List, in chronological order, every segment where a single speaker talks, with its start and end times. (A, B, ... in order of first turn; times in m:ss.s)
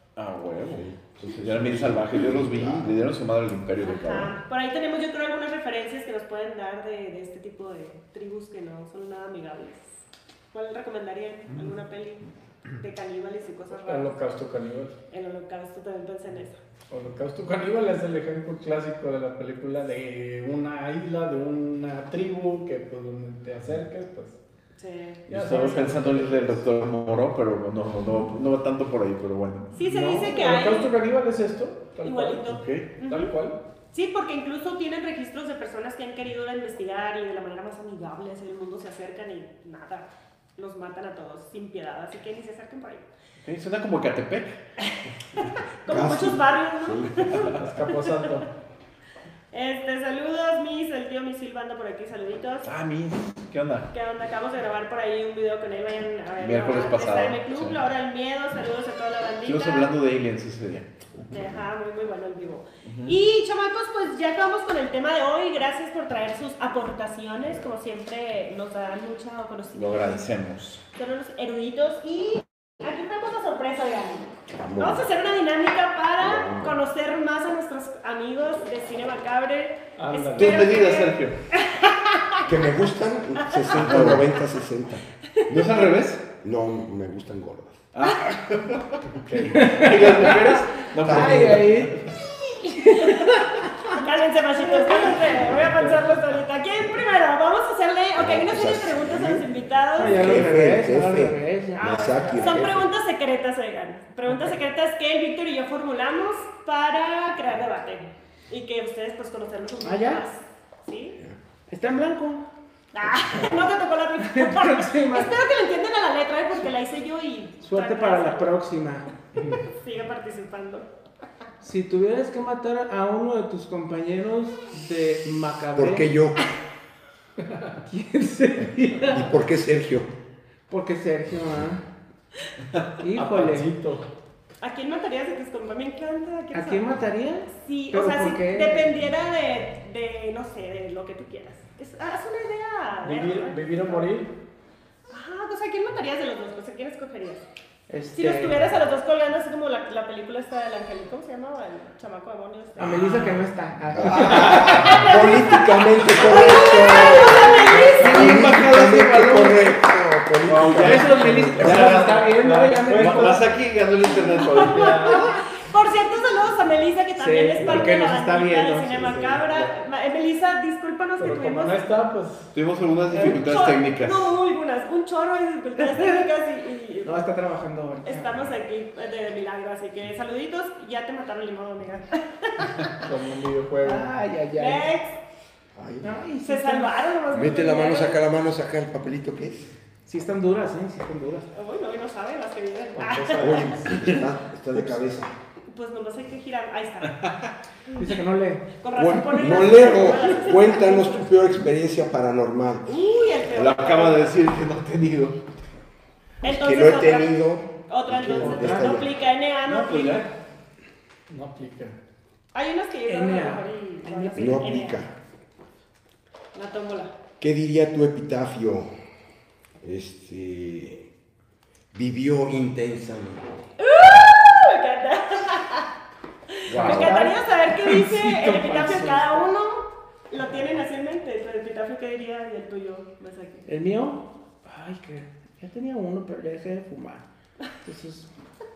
0:00.2-0:00.8 A
0:00.6-0:03.1 B
0:01.3-0:04.3 A
0:03.8-0:09.8 C
0:10.5-0:14.2 C
0:13.7-0:14.9 D
0:15.1-0:16.6 C
0:16.9-0:24.4 D
0:24.8-0:25.2 C
0:25.3-0:26.6 D
0:25.3-0:29.8 A
0:29.7-0:30.9 C
0:29.8-0:32.4 D
0:32.0-0:33.3 C
0:32.5-0:32.9 A
0:33.0-0:33.6 D
0:33.9-0:43.1 C
0:43.4-0:44.6 A
0:45.4-0:48.3 C
0:45.8-0:47.6 B
0:47.3-0:47.6 A
0:47.6-0:48.5 D
0:49.5-0:52.7 C
0:52.6-0:53.9 A
0:53.9-0:59.9 C
0:56.4-0:57.8 A
0:59.4-1:01.2 A
1:01.3-1:10.2 C
1:02.8-1:03.2 A
1:09.7-1:10.8 A
1:10.9-1:22.4 C
1:14.5-1:15.1 B
1:16.2-1:16.8 B
1:20.0-1:20.7 D
1:20.4-1:21.4 A
1:22.4-1:25.0 B
1:23.7-1:24.4 A
1:25.5-1:26.2 A
1:26.4-1:27.8 B
1:27.9-1:29.0 A
1:29.1-1:30.0 D
1:29.5-1:34.0 E
1:29.6-1:32.1 A
1:31.0-1:31.6 B
1:33.0-1:40.5 C
1:35.6-1:36.0 D
1:38.1-1:42.9 B
1:40.0-1:42.8 E
1:41.8-1:51.2 C
1:44.3-1:44.5 E
1:49.8-1:50.2 E
1:51.7-1:52.4 E
1:52.9-1:58.6 C
1:54.2-1:55.4 E
1:57.6-1:59.6 E
1:59.6-2:00.9 C
2:01.6-2:06.1 E
2:05.7-2:06.4 B
2:07.8-2:09.3 E
2:09.0-2:10.1 B
2:10.7-2:11.8 E
2:13.0-2:13.7 E
2:13.1-2:14.0 D
2:14.6-2:17.0 C
2:16.5-2:18.9 E
2:17.5-2:24.1 C
2:23.0-2:24.3 D
2:25.1-2:27.4 C
2:27.9-2:28.7 E
2:28.1-2:33.0 C
2:32.8-2:35.2 E
2:33.9-2:41.8 B
2:34.3-2:38.4 C
2:37.5-2:38.1 E
2:37.7-2:38.0 D
2:38.0-2:39.8 A
2:40.4-2:45.3 A
2:40.8-2:43.4 E
2:41.5-2:43.5 D
2:44.0-2:51.8 C
2:44.6-2:45.3 D
2:47.2-2:49.4 E
2:51.2-2:52.5 D
2:52.5-2:54.4 A
2:53.1-2:57.2 C
2:55.8-2:56.2 E
2:57.0-2:58.5 E
2:58.0-3:03.0 C
3:03.0-3:04.1 D
3:03.8-3:04.9 E
3:04.6-3:05.2 C
3:05.7-3:06.2 B
3:06.0-3:06.9 E
3:06.4-3:08.2 C
3:07.3-3:09.7 B
3:10.0-3:11.5 E
3:11.5-3:14.0 C
3:13.0-3:14.0 E
3:13.3-3:15.3 B
3:15.7-3:17.2 C
3:17.9-3:18.7 E
3:18.8-3:21.3 C
3:18.9-3:23.0 B
3:22.9-3:24.4 C
3:23.5-3:25.4 A
3:26.4-3:30.2 C
3:26.4-3:29.1 B
3:28.4-3:29.0 E
3:28.4-3:28.6 D
3:29.7-3:30.2 D
3:31.3-3:32.0 D
3:32.5-3:35.0 C
3:33.1-3:34.8 E
3:34.3-3:35.1 B
3:36.5-3:37.1 C
3:37.4-3:38.9 B
3:39.8-3:41.1 B
3:41.9-3:43.6 B
3:43.8-3:45.9 C
3:46.5-3:53.6 C
3:46.7-3:47.2 A
3:46.7-3:49.5 E
3:53.6-3:57.2 E
3:57.8-3:58.3 E